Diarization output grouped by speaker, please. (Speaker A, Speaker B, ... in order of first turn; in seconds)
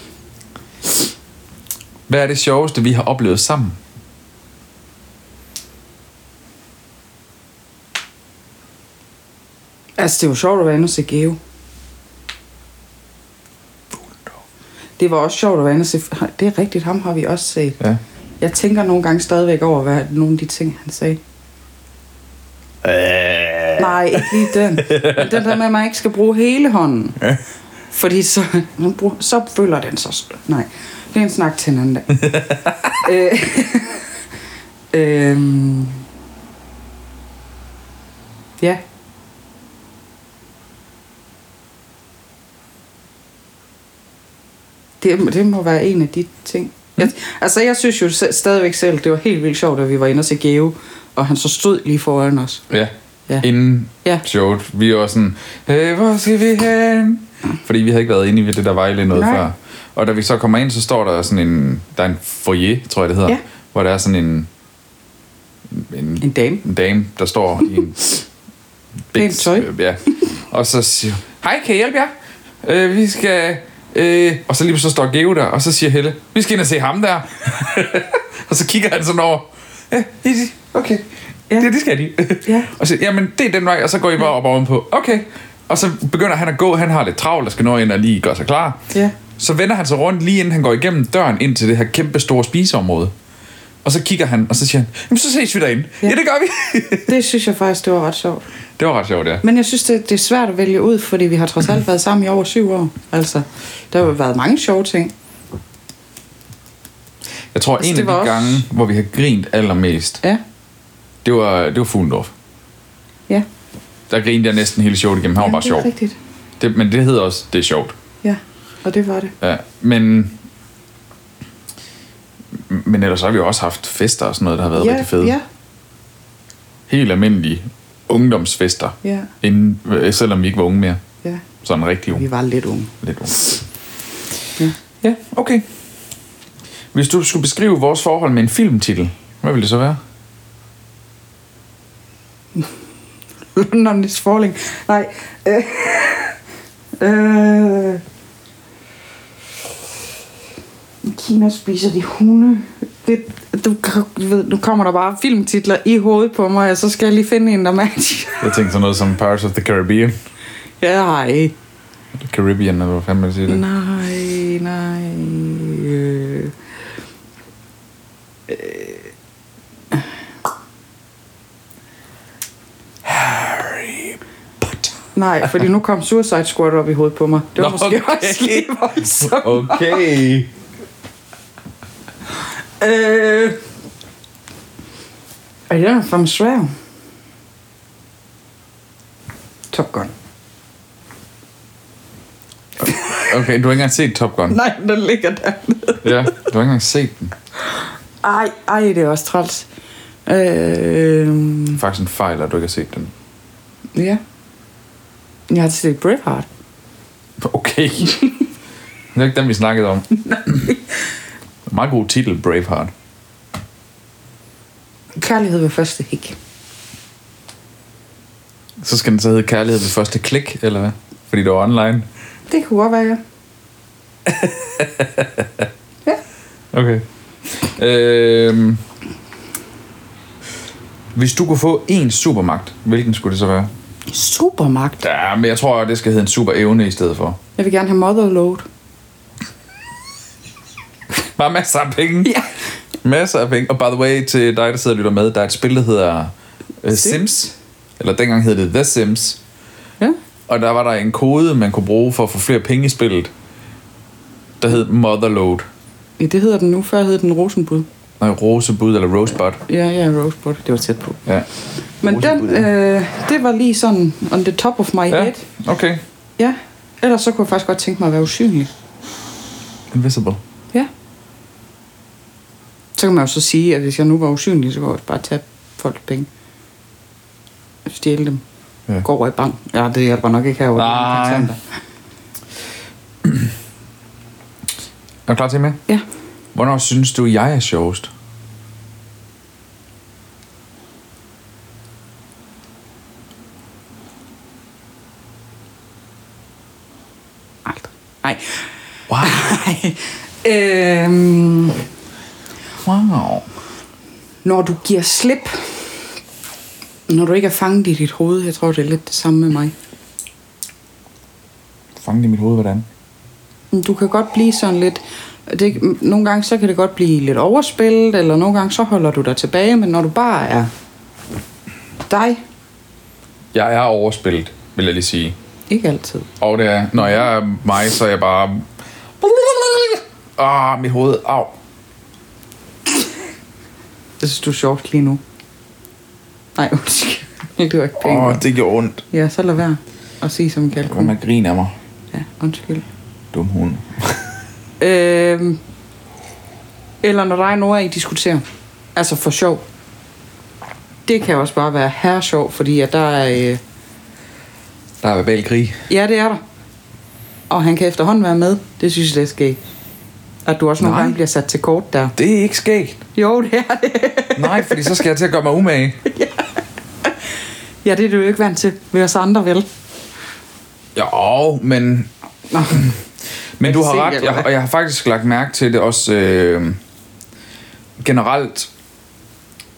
Speaker A: 2.1-3.8, 13.9-14.3, 22.8-25.4, 32.2-33.0, 52.7-64.5, 65.7-68.1, 69.1-72.1, 72.6-81.0, 81.6-88.8, 89.4-93.1, 93.8-97.1, 98.8-99.4, 107.5-110.2, 111.2-112.3, 114.1-115.9, 116.6-118.0, 119.4-120.4, 122.7-125.3, 126.9-131.0, 131.6-132.2, 133.0-133.4, 135.0-135.7, 136.9-140.0, 158.4-160.1, 162.2-163.6, 173.0-174.9, 177.6-180.5, 192.8-194.6, 196.0-197.3, 201.8-203.1, 207.4-208.3, 209.1-210.7, 211.7-212.9, 218.8-222.1, 224.3-225.7, 226.7-228.8, 231.2-233.7, 235.0-237.4, 241.4-242.4, 243.0-249.4, 250.5-253.3, 254.6-255.7, 258.2-259.6, 262.1-262.6, 265.1-266.0, 269.9-270.4, 280.8-281.5, 285.3-285.8, 286.6-288.1, 299.1-299.5, 302.8-303.5, 312.0-312.9, 323.5-325.4, 326.4-328.7, 329.2-331.5, 338.0-339.1, 340.8-341.8, 343.3-344.3, 355.0-355.9, 360.8-361.2, 362.2-363.0, 364.4-366.0, 370.9-372.1, 373.6-376.8, 378.0-378.7
Speaker B: 10.0-11.4, 15.0-17.8, 18.4-21.2, 23.8-27.2, 27.9-32.2, 33.0-34.1, 34.9-36.0, 45.0-52.6, 59.1-59.5, 66.2-66.6, 69.2-69.7, 82.5-82.7, 97.0-98.5, 99.4-105.1, 107.8-108.6, 115.4-116.2, 118.2-119.3, 124.8-125.5, 129.0-129.3, 132.1-132.9, 143.6-146.4, 147.0-148.0, 151.0-158.5, 160.8-161.5, 163.5-166.5, 168.5-169.1, 175.1-180.1, 182.8-183.6, 185.7-186.7, 189.7-190.1, 192.9-193.3, 194.5-196.3, 198.2-199.7, 200.3-201.8, 203.9-204.2, 205.5-206.5, 210.2-210.8, 215.2-216.4, 222.5-223.2, 234.1-235.0, 237.6-238.7, 246.9-247.2, 256.2-257.9, 259.7-261.2, 262.0-265.5, 266.4-268.7, 273.0-276.3, 277.9-278.4, 279.0-281.6, 297.7-298.6, 299.2-301.8, 304.4-305.8, 307.1-309.7, 313.7-320.7, 322.1-322.4, 325.7-326.3, 334.2-335.2, 336.6-338.4, 339.1-341.1, 342.1-342.9, 344.8-345.6, 347.0-349.6, 351.1-353.6, 355.9-356.4, 357.5-359.6, 360.4-362.1, 363.1-365.0, 366.1-366.4, 367.8-369.7, 372.5-372.9, 373.6-374.5